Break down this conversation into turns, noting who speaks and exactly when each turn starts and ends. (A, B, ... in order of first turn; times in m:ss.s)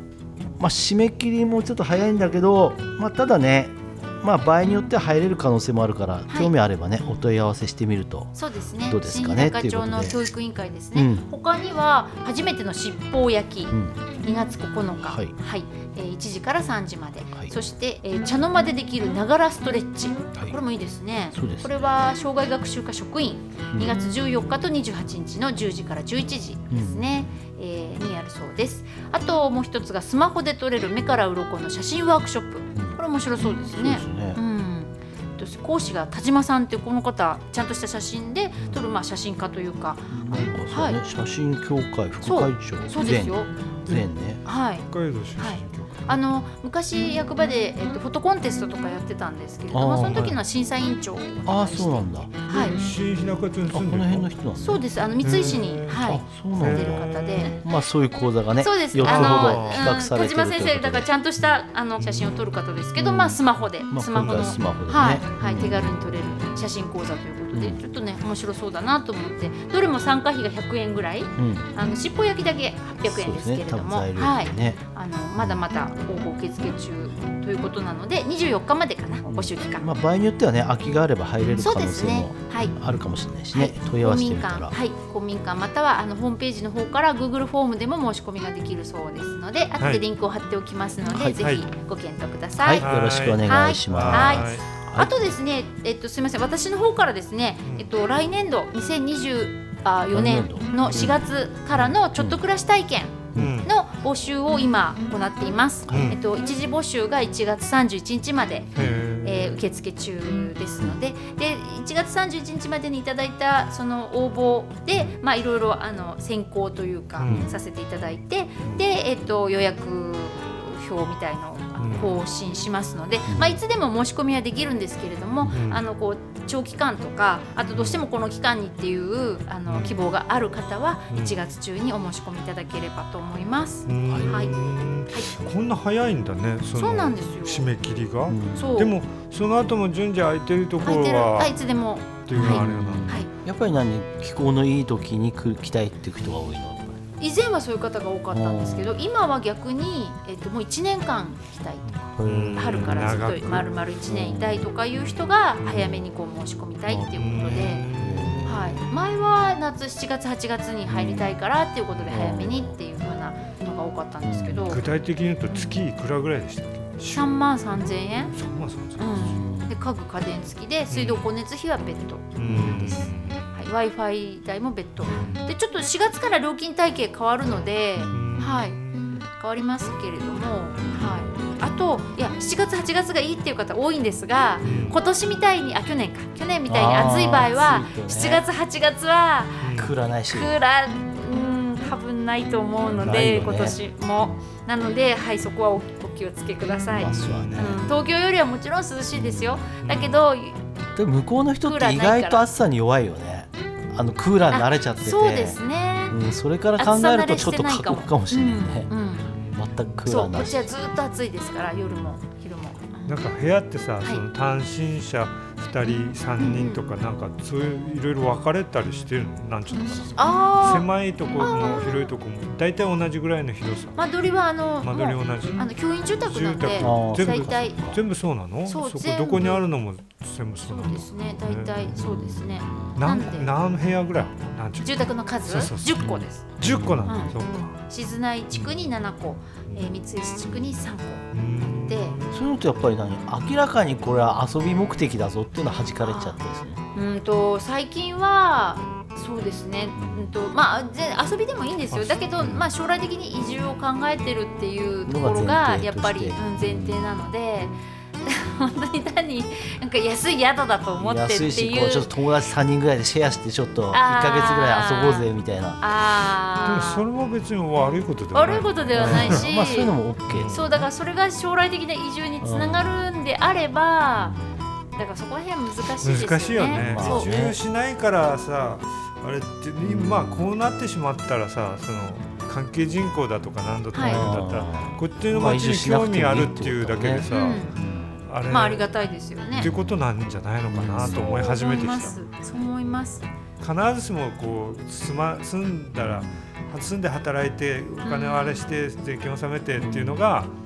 0:00.6-0:08.4 A
0:08.3-0:41.0 B
0:08.9-0:10.2 A
0:10.9-0:11.2 A
0:13.7-0:14.0 A
0:15.0-0:15.3 A
0:21.3-0:21.7 A
0:23.7-0:24.0 A
0:26.7-0:27.4 A
0:32.7-0:33.0 A
0:33.6-0:34.4 A
0:40.1-0:44.4 A
0:42.2-0:43.5 B
0:44.4-0:44.9 B
0:44.8-0:46.1 C
0:45.4-0:52.8 B
0:49.7-0:50.4 A
0:50.0-0:50.4 C
0:51.4-0:52.7 A
0:52.5-0:54.3 C
0:53.7-0:54.8 A
0:54.6-0:57.6 B
0:55.2-0:57.6 C
0:56.0-1:01.1 A
0:58.6-1:19.9 B
0:59.0-0:59.9 C
1:02.0-1:02.3 C
1:03.0-1:05.9 A
1:04.2-1:04.5 C
1:07.5-1:07.8 A
1:11.4-1:11.7 A
1:13.0-1:14.8 A
1:19.2-1:24.7 A
1:21.6-1:22.7 B
1:23.5-1:32.9 B
1:31.1-1:31.4 A
1:32.6-1:35.2 A
1:32.8-1:34.6 C
1:33.4-1:48.7 B
1:40.1-1:41.2 A
1:40.8-1:41.2 C
1:41.7-1:42.0 C
1:43.3-1:43.6 A
1:43.3-1:43.7 C
1:45.9-1:46.2 A
1:45.9-1:46.2 C
1:48.7-1:49.6 C
1:49.2-2:14.5 B
1:57.2-1:57.5 C
1:57.2-1:57.5 A
2:01.8-2:02.2 C
2:03.3-2:03.6 A
2:05.5-2:05.8 C
2:07.7-2:08.0 C
2:09.7-2:09.9 C
2:11.1-2:11.4 C
2:13.9-2:21.6 C
2:14.1-2:14.4 A
2:16.8-2:17.7 B
2:18.3-2:18.8 A
2:18.5-2:19.0 B
2:20.8-2:23.3 B
2:22.3-2:23.2 C
2:22.3-2:27.0 A
2:27.2-2:32.0 B
2:28.3-2:29.0 A
2:31.8-2:33.6 C
2:32.2-2:34.7 A
2:32.6-2:37.8 B
2:34.9-2:35.2 C
2:35.6-2:36.0 A
2:36.9-2:38.8 A
2:37.2-2:38.8 C
2:38.4-2:44.8 B
2:40.9-2:41.3 A
2:42.1-2:42.7 A
2:44.2-2:44.8 A
2:44.7-2:47.3 C
2:45.5-2:45.8 B
2:47.1-2:48.3 B
2:48.3-2:49.3 C
2:49.0-2:58.8 B
2:49.1-2:49.9 A
2:50.9-2:51.3 C
2:52.4-2:53.7 C
2:52.5-2:53.1 A
2:55.1-2:55.5 C
2:58.0-2:58.4 A
2:58.1-2:59.2 C
2:59.4-3:20.6 B
3:04.6-3:05.0 C
3:04.6-3:04.9 A
3:06.7-3:08.4 A
3:09.6-3:09.9 C
3:09.8-3:10.6 A
3:13.0-3:14.4 A
3:16.9-3:18.0 A
3:17.0-3:17.8 C
3:19.1-3:19.7 A
3:19.8-3:20.2 C
3:21.0-3:30.7 A
3:21.6-3:22.5 B
3:24.5-3:26.2 B
3:26.8-3:29.4 B
3:29.3-3:29.6 C
3:30.0-3:33.2 B
3:31.8-3:32.1 C
3:33.1-3:44.0 C
3:36.4-3:36.8 B
3:39.7-3:40.9 B
3:41.4-3:42.1 B
3:44.0-3:47.8 B
3:44.8-3:52.0 C
3:46.8-3:48.0 A
3:48.6-3:49.6 B
3:50.6-3:53.5 B
3:51.9-3:53.0 A
3:53.0-3:57.7 C
3:54.8-3:56.5 B
3:56.0-3:57.3 A
3:57.0-4:01.2 B
4:01.3-4:02.3 C
4:01.9-4:02.1 B
4:02.3-4:06.8 A
4:06.0-4:06.4 B
4:06.9-4:22.1 B
4:10.0-4:10.3 A
4:11.9-4:12.6 C
4:15.0-4:17.1 A
4:21.0-4:25.8 A
4:23.9-4:25.3 B
4:25.8-4:27.0 B
4:26.6-4:29.4 C
4:28.3-4:29.9 B
4:28.9-4:30.7 A
4:30.3-4:30.7 C
4:30.5-4:34.4 B
4:32.4-4:33.1 A
4:34.2-4:34.6 A
4:35.0-4:37.3 B
4:36.0-4:47.6 C
4:36.7-4:37.6 A
4:39.8-4:40.5 A
4:43.9-4:44.2 B
4:44.0-4:48.2 A
4:47.3-4:47.7 B
4:48.3-4:48.8 C
4:48.5-4:49.7 B
4:49.5-4:49.9 A
4:49.5-4:52.2 C
4:50.7-4:51.3 A
4:51.0-4:53.2 B
4:53.6-5:00.5 C
4:56.0-4:56.3 A
4:58.0-4:58.6 B
4:59.8-5:00.3 A